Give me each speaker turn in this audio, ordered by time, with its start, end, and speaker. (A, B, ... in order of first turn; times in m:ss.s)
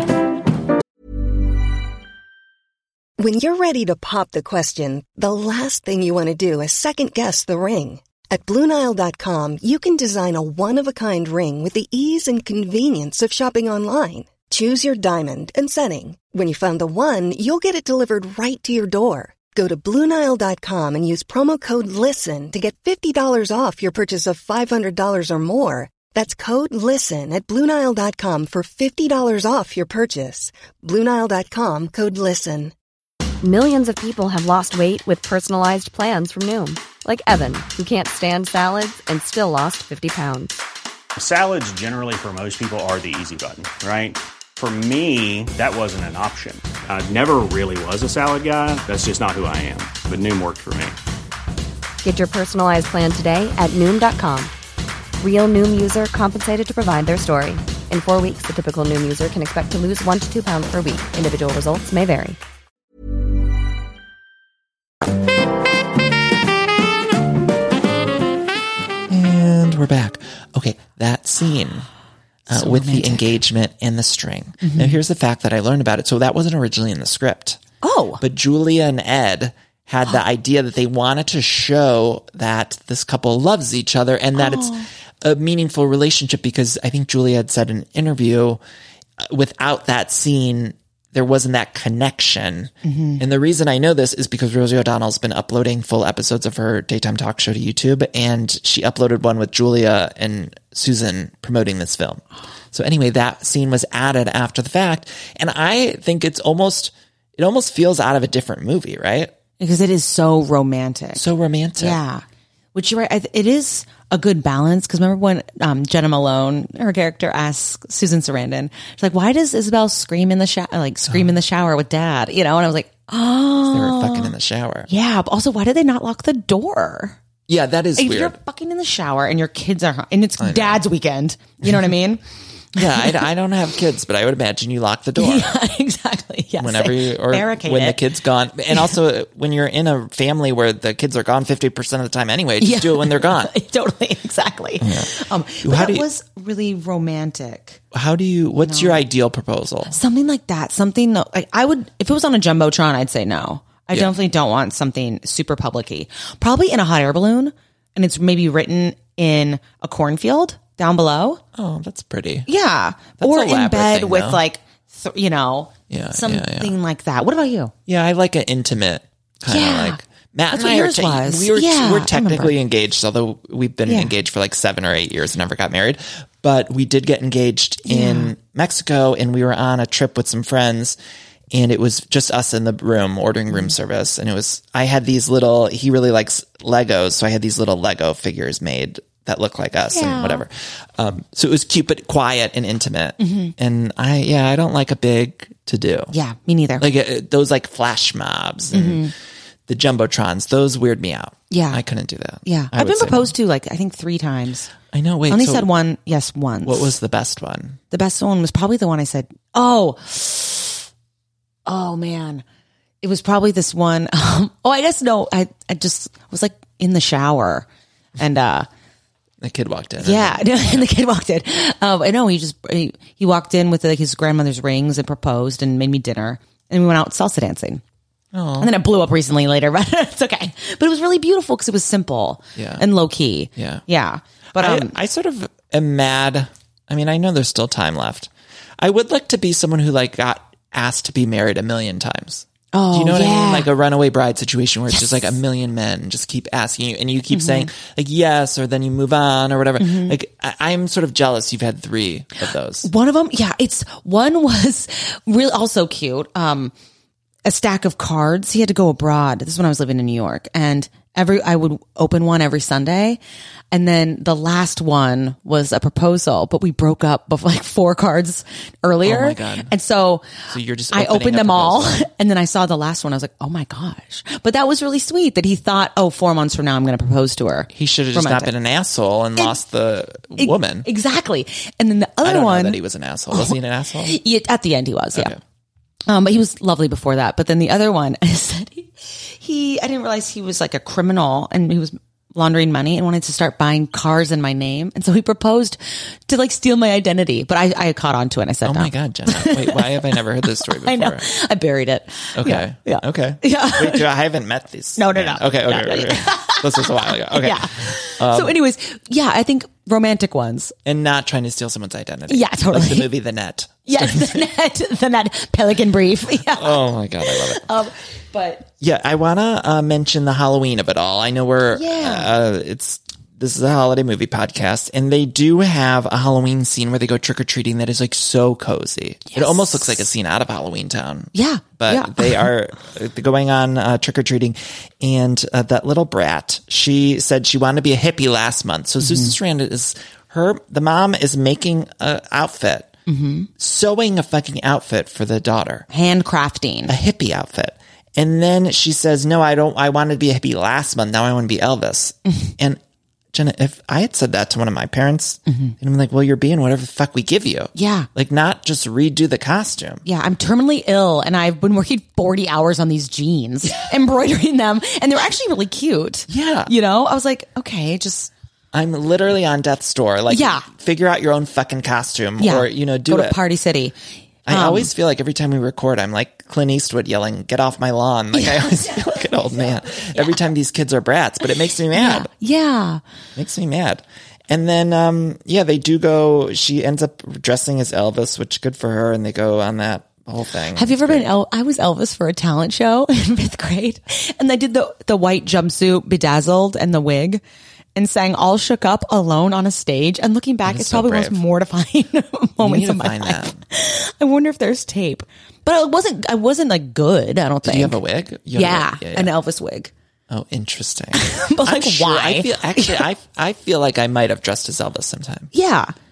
0:03.2-0:32.7 A
0:33.4-0:40.6 B
0:41.2-0:51.0 C
0:52.0-0:54.5 B
0:55.2-1:02.4 B
1:09.1-1:11.9 D
1:12.5-1:17.6 D
1:12.5-1:13.4 E
1:14.6-1:15.0 E
1:17.8-1:18.2 E
1:18.2-1:28.6 D
1:24.4-1:24.9 E
1:29.2-1:49.3 D
1:32.8-1:33.2 E
1:49.6-1:51.2 E
1:51.2-1:52.0 D
1:51.8-1:52.2 E
1:52.7-2:04.3 E
2:03.7-2:04.9 D
2:04.9-2:07.2 E
2:07.5-2:08.4 D
2:08.0-2:12.2 E
2:10.4-2:10.8 D
2:12.8-2:15.6 D
2:12.8-2:13.0 E
2:15.2-2:18.0 E
2:16.6-2:23.5 D
2:22.6-2:27.8 E
2:24.8-2:26.1 D
2:27.9-2:30.0 D
2:28.6-2:29.0 E
2:29.9-2:41.4 E
2:41.5-2:42.5 D
2:42.5-2:47.7 E
2:43.2-2:44.4 D
2:45.9-2:46.7 D
2:47.9-3:01.0 D
2:49.5-2:52.5 E
2:53.9-2:54.1 E
2:57.9-2:58.3 E
3:01.5-3:16.1 D
3:09.9-3:10.4 E
3:13.2-3:13.5 E
3:16.1-3:16.8 E
3:16.8-3:19.1 D
3:18.7-3:19.1 E
3:19.7-3:23.3 D
3:21.5-3:21.8 E
3:22.4-3:24.7 E
3:24.9-3:25.7 D
3:25.3-3:27.0 E
3:26.6-3:27.8 D
3:27.9-3:30.8 E
3:31.6-3:32.4 E
3:33.0-3:38.7 E
3:39.4-3:40.9 D
3:40.0-3:47.8 E
3:48.3-3:48.7 D
3:48.6-3:54.9 E
3:52.6-3:52.8 D
3:53.6-3:53.8 D
3:54.6-4:12.9 D
4:02.7-4:03.7 E
4:04.9-4:05.3 E
4:07.3-4:07.7 E
4:09.8-4:10.2 E
4:12.8-4:16.7 E
4:17.4-4:23.2 E
4:23.7-4:38.5 E
4:29.0-4:29.7 D
4:30.5-4:32.1 D
4:37.7-4:40.9 D
4:40.4-4:42.8 E
4:42.2-4:44.2 D
4:43.3-4:45.3 E
4:45.1-4:45.4 D
4:46.1-5:04.1 E
4:58.6-5:01.3 D
5:02.4-5:08.6 D
5:05.0-5:10.7 E
5:10.8-5:14.5 D
5:12.3-5:13.1 E
5:13.8-5:18.7 E
5:16.5-5:17.7 D
5:18.8-5:42.9 D
5:21.7-5:22.3 E
5:29.3-5:30.0 E
5:31.3-5:32.5 E
5:39.0-5:39.3 E
5:43.1-5:43.5 E
5:43.6-5:45.8 D
5:45.9-5:46.9 E
5:46.9-5:52.8 D
5:53.3-6:00.0 D
5:55.5-5:55.7 E
5:57.7-5:58.1 E
6:00.0-6:08.3 E
6:06.3-6:06.7 D
6:08.7-6:13.4 D
6:10.3-6:10.7 E
6:12.4-6:14.9 E
6:14.4-6:22.3 D
6:18.3-6:20.4 E
6:21.9-6:23.0 E
6:23.4-6:31.3 D
6:30.7-6:37.4 E
6:37.9-6:48.0 E
6:40.6-6:41.4 D
6:42.6-6:43.6 D
6:47.6-6:49.3 D
6:48.5-6:49.9 E
6:50.3-6:55.5 D
6:51.1-6:53.0 E
6:55.5-6:55.9 E